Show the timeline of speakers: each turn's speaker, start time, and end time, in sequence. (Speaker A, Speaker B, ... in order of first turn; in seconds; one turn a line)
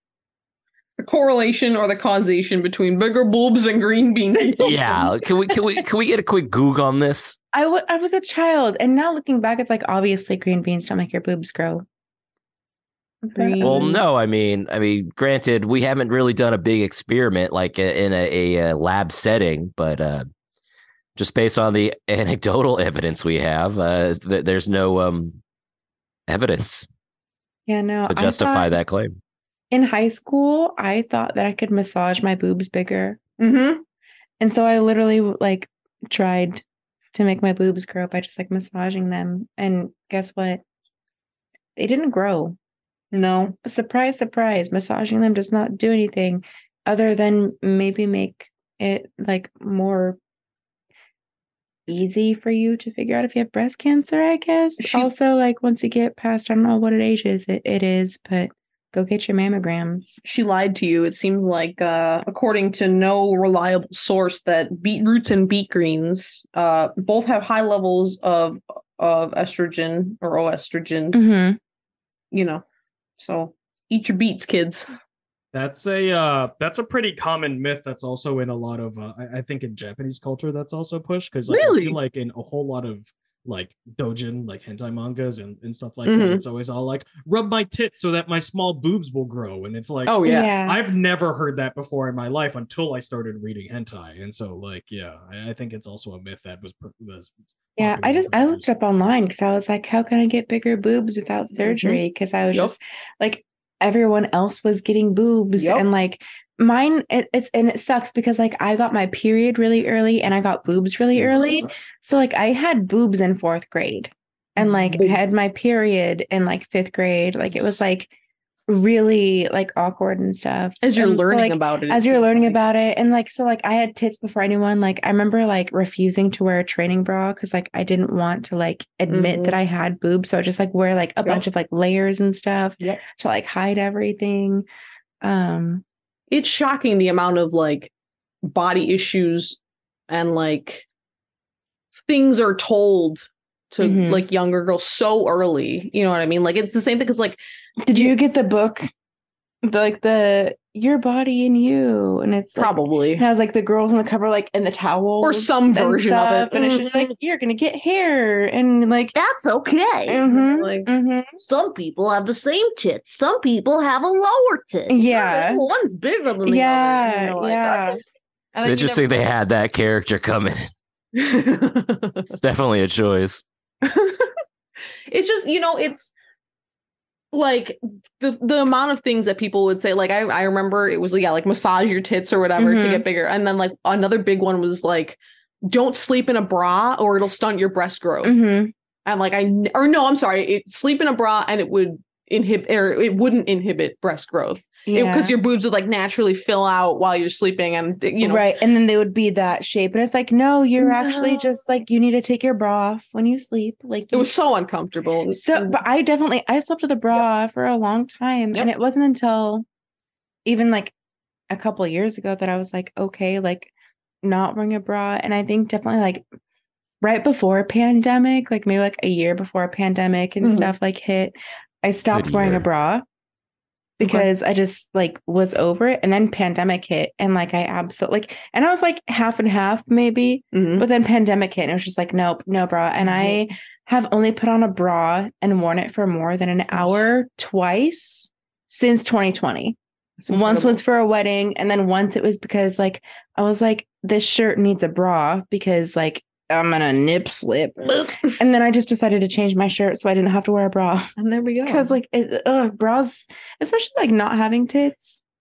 Speaker A: 1.0-5.6
Speaker B: 4.6-7.4
Speaker C: 7.5-11.8
Speaker C: 13.2-13.9
Speaker A: 13.3-14.0
Speaker B: 13.6-20.3
Speaker B: 21.1-25.4
Speaker B: 26.3-26.9
Speaker C: 27.7-28.7
Speaker B: 28.1-29.1
Speaker C: 29.7-33.2
Speaker A: 33.4-33.8
Speaker C: 34.4-36.6
Speaker C: 37.1-40.6
Speaker C: 41.8-42.5
Speaker A: 43.1-43.6
Speaker C: 43.6-50.2
Speaker C: 51.9-60.2
Speaker A: 54.8-55.1
Speaker A: 60.2-71.2
Speaker C: 71.1-71.6
Speaker A: 72.3-72.6
Speaker A: 73.2-74.9
Speaker D: 75.5-98.7
Speaker A: 81.5-82.0
Speaker A: 86.0-86.4
Speaker A: 90.0-90.5
Speaker C: 90.2-90.8
Speaker C: 97.8-118.1
Speaker A: 101.5-102.7
Speaker A: 105.5-105.9
Speaker A: 114.6-115.3
Speaker C: 118.7-134.7
Speaker A: 120.8-122.6
Speaker A: 129.1-129.6
Speaker C: 135.2-135.8
Speaker A: 136.3-137.9
Speaker A: 138.4-140.8
Speaker A: 142.1-147.4
Speaker C: 143.8-144.2
Speaker C: 147.8-148.9
Speaker C: 149.6-159.1
Speaker A: 152.6-153.2
Speaker A: 155.2-157.1
Speaker E: 159.1-160.2
Speaker C: 160.1-161.3
Speaker A: 160.2-160.9
Speaker E: 161.4-167.0
Speaker C: 164.9-165.6
Speaker A: 165.1-165.7
Speaker C: 166.4-168.0
Speaker A: 166.7-168.0
Speaker A: 168.5-169.2
Speaker B: 168.6-170.7
Speaker A: 171.1-172.3
Speaker B: 172.3-173.4
Speaker A: 173.8-174.3
Speaker A: 175.1-176.1
Speaker A: 177.3-188.4
Speaker C: 182.6-183.0
Speaker C: 188.2-188.7
Speaker A: 189.0-198.5
Speaker C: 194.9-195.3
Speaker C: 198.2-204.3
Speaker A: 200.8-201.5
Speaker A: 204.1-205.8
Speaker C: 205.3-209.6
Speaker C: 210.4-210.9
Speaker C: 211.5-213.7
Speaker C: 214.2-216.2
Speaker C: 217.0-223.0
Speaker A: 220.4-220.7
Speaker B: 222.1-222.6
Speaker C: 224.0-239.8
Speaker A: 224.0-224.3
Speaker A: 230.5-230.9
Speaker A: 233.0-233.4
Speaker A: 240.2-240.8
Speaker C: 240.3-251.1
Speaker A: 247.8-248.3
Speaker A: 251.2-251.9
Speaker C: 251.7-255.2